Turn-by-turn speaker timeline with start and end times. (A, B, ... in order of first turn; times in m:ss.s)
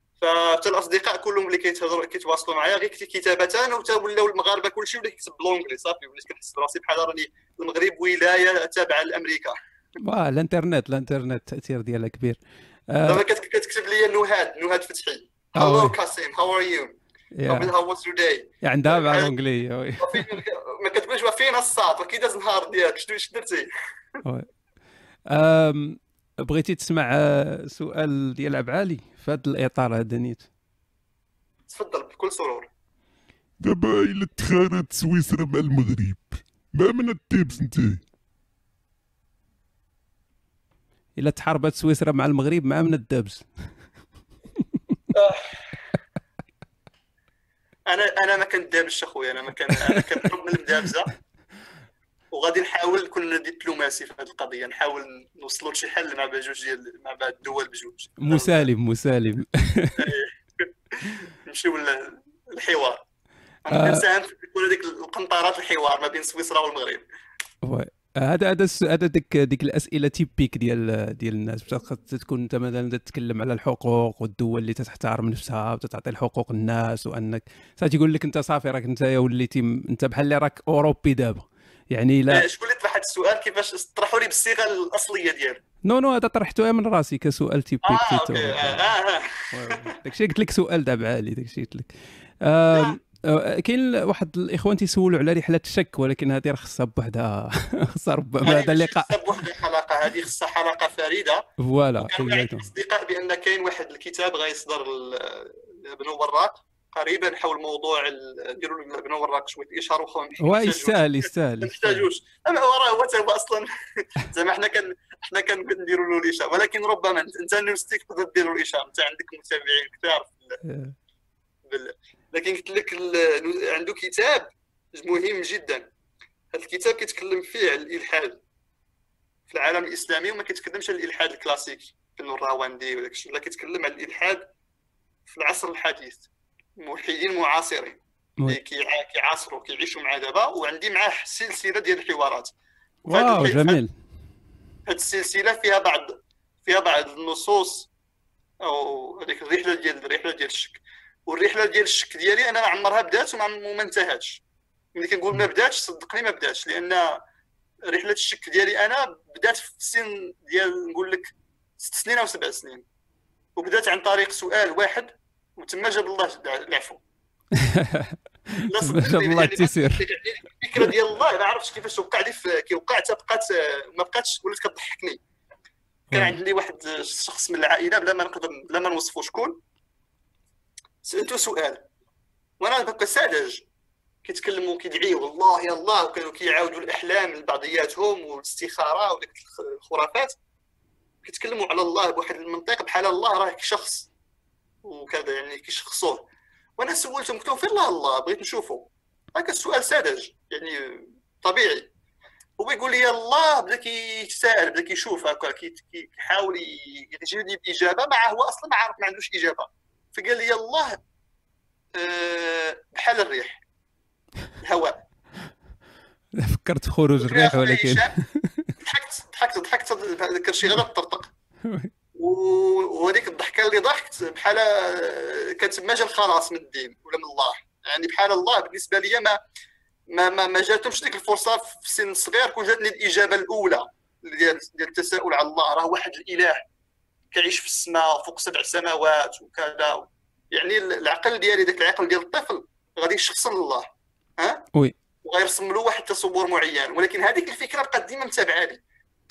0:00.2-0:09.6 A
0:10.0-0:13.2 B
0:13.0-0:17.0 A
0:15.6-0:16.0 B
0:17.4-0:17.7 B
0:17.5-0:19.3 A
0:18.6-0:20.3 B
0:20.0-0:23.7 A
0:25.3-0:30.5 B
0:31.7-0:32.7 A
0:33.6-0:38.0 C
0:41.2-0:43.5 B
0:45.1-0:45.6 A
0:47.9-0:51.1 A
0:52.3-0:58.7 A
0:58.2-1:00.1 B
1:00.0-1:03.0 A
1:03.6-1:07.0 A
1:03.7-1:04.0 B
1:07.6-1:22.4 B
1:22.3-1:25.6 A
1:25.8-1:28.8 B
1:27.8-1:29.9 A
1:29.5-1:39.4 B
1:32.7-1:33.0 A
1:38.4-1:41.4 A
1:41.6-1:42.7 B
1:42.0-2:00.6 A
1:50.4-1:52.1 B
2:00.6-2:01.0 B
2:01.7-2:05.9 A
2:06.5-2:08.4 A
2:09.5-2:14.5 A
2:15.3-2:16.3 A
2:16.8-2:22.5 A
2:23.1-2:23.8 A
2:23.1-2:23.9 B
2:24.9-2:27.9 A
2:28.6-2:34.4 A
2:35.0-2:37.2 A
2:37.8-2:42.8 A
2:43.6-2:47.0 A
2:47.6-2:50.1 B
2:48.7-2:55.2 A
2:56.1-2:56.4 B
2:56.1-2:59.6 A
3:01.0-3:01.9 A
3:02.6-3:03.7 A
3:04.2-3:10.4 A
3:11.2-3:14.1 A
3:14.8-3:16.3 A
3:16.8-3:21.9 A
3:22.6-3:31.0 A
3:32.0-3:33.6 A
3:34.6-3:35.0 A
3:36.4-3:38.7 B
3:37.2-3:38.1 A
3:38.8-3:41.3 A
3:42.2-3:49.4 A
3:50.1-3:56.6 A
3:57.3-4:04.7 A
4:05.2-4:08.8 A